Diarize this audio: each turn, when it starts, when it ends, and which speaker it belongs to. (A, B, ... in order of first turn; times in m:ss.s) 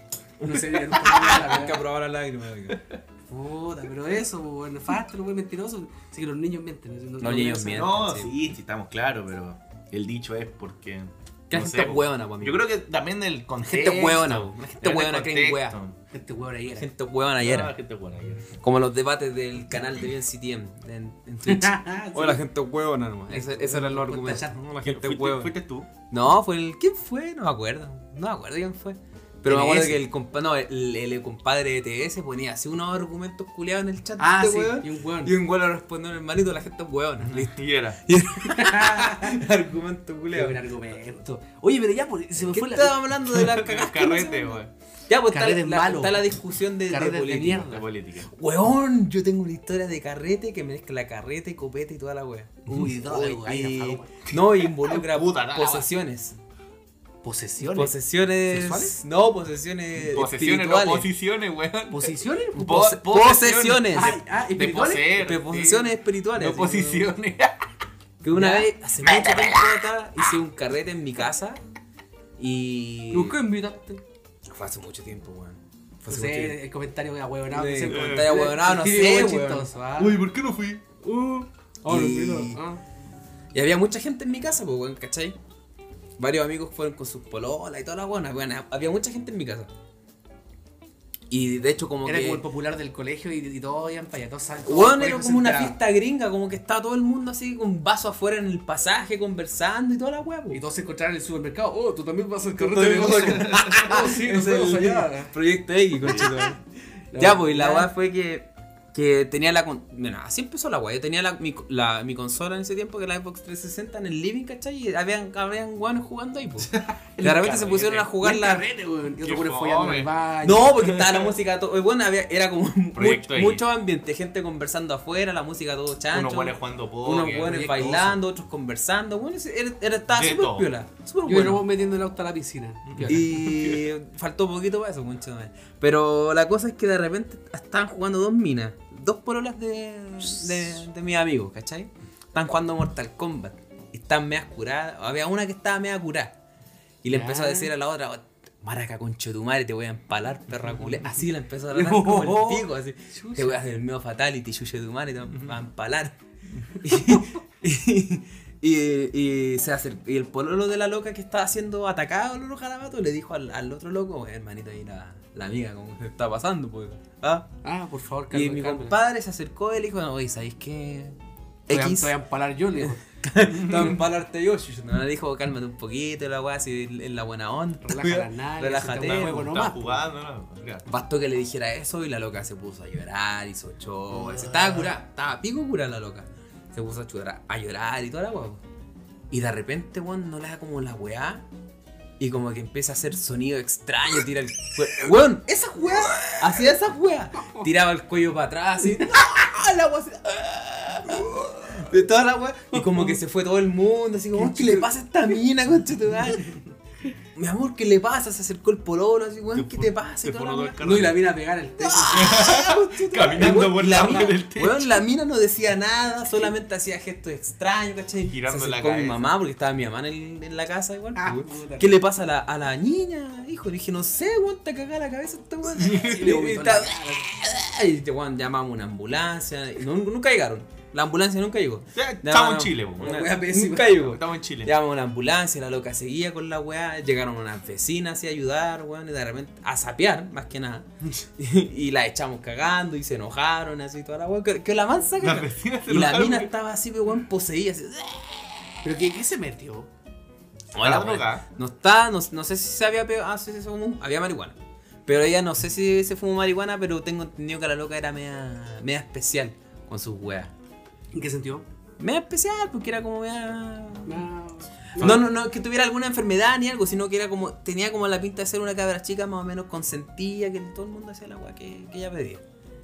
0:00.4-0:01.8 A
0:01.0-0:02.8 B
0:03.3-0:08.0 A
0:07.2-0:08.3 B
0:07.7-0:16.0 C
0:11.5-0:12.7 B
0:13.6-0:15.8 B
0:16.1-0:16.9 A
0:16.7-0:17.8 B
0:17.4-0:18.5 C
0:18.6-0:25.5 B
0:21.5-0:22.5 A
0:23.3-0:24.6 A
0:24.8-0:25.9 C
0:26.1-0:40.6 B
0:29.5-0:30.0 A
0:34.2-0:35.3 A
0:37.2-0:38.0 C
0:38.4-0:39.4 A
0:40.3-0:43.1 A
0:42.4-0:47.7 B
0:43.3-0:44.7 C
0:45.3-0:46.3 A
0:46.9-0:47.9 A
0:47.7-0:48.3 C
0:48.3-0:56.4 B
0:52.7-0:54.2 A
0:54.3-0:55.9 C
0:57.2-0:59.0 A
0:57.6-1:01.1 B
1:00.0-1:07.6 C
1:01.9-1:02.8 A
1:02.6-1:04.2 B
1:03.9-1:05.3 A
1:05.2-1:07.1 B
1:08.2-1:11.6 B
1:08.3-1:08.7 A
1:09.0-1:09.8 C
1:12.4-1:13.4 B
1:13.1-1:14.0 A
1:14.5-1:16.6 B
1:16.1-1:20.2 A
1:17.5-1:19.7 B
1:17.9-1:18.3 C
1:20.0-1:20.8 C
1:21.0-1:22.8 A
1:21.8-1:22.6 B
1:23.5-1:25.4 B
1:26.2-1:29.7 B
1:31.3-1:32.4 B
1:32.0-1:35.8 A
1:34.6-1:40.6 B
1:40.5-1:45.3 A
1:42.6-1:46.6 B
1:43.4-1:43.9 C
1:46.0-1:46.5 A
1:47.1-1:47.9 A
1:47.2-1:58.6 B
1:56.7-1:58.1 C
1:57.5-2:01.0 A
1:59.2-2:00.1 C
2:00.4-2:11.6 B
2:01.0-2:01.2 C
2:03.0-2:03.6 C
2:06.1-2:07.8 C
2:07.5-2:08.2 A
2:10.1-2:10.7 C
2:11.2-2:13.3 A
2:12.9-2:13.9 C
2:13.0-2:26.4 B
2:27.0-2:36.2 B
2:27.1-2:27.7 A
2:31.7-2:33.6 A
2:36.8-2:47.5 B
2:47.6-2:49.0 A
2:48.3-2:51.2 B
2:51.7-2:52.1 B
2:51.7-2:53.0 A
2:52.8-2:59.5 B
2:53.5-2:54.0 C
2:57.8-3:00.0 A
2:59.1-3:00.9 C
3:00.9-3:08.6 B
3:04.1-3:04.9 C
3:09.3-3:11.4 B
3:12.2-3:26.5 B
3:15.8-3:16.3 A
3:21.2-3:21.8 A
3:22.7-3:23.2 A
3:24.4-3:24.9 A
3:27.4-3:30.8 B
3:29.5-3:31.2 C
3:30.8-3:32.5 A
3:31.8-4:08.9 B
3:32.1-3:35.0 C
3:33.4-3:34.3 A
3:38.3-3:39.3 C
3:41.2-3:41.9 A
3:45.8-3:46.2 C
3:45.8-3:47.3 A
3:51.9-3:53.3 C
3:53.0-3:54.0 A
3:53.9-3:54.7 C
4:05.2-4:06.5 C
4:08.8-4:09.9 A
4:10.7-4:20.5 B
4:10.8-4:11.4 C
4:21.1-4:21.6 A
4:22.0-4:24.2 B
4:24.1-4:25.2 A
4:25.0-4:32.4 B
4:25.0-4:25.2 C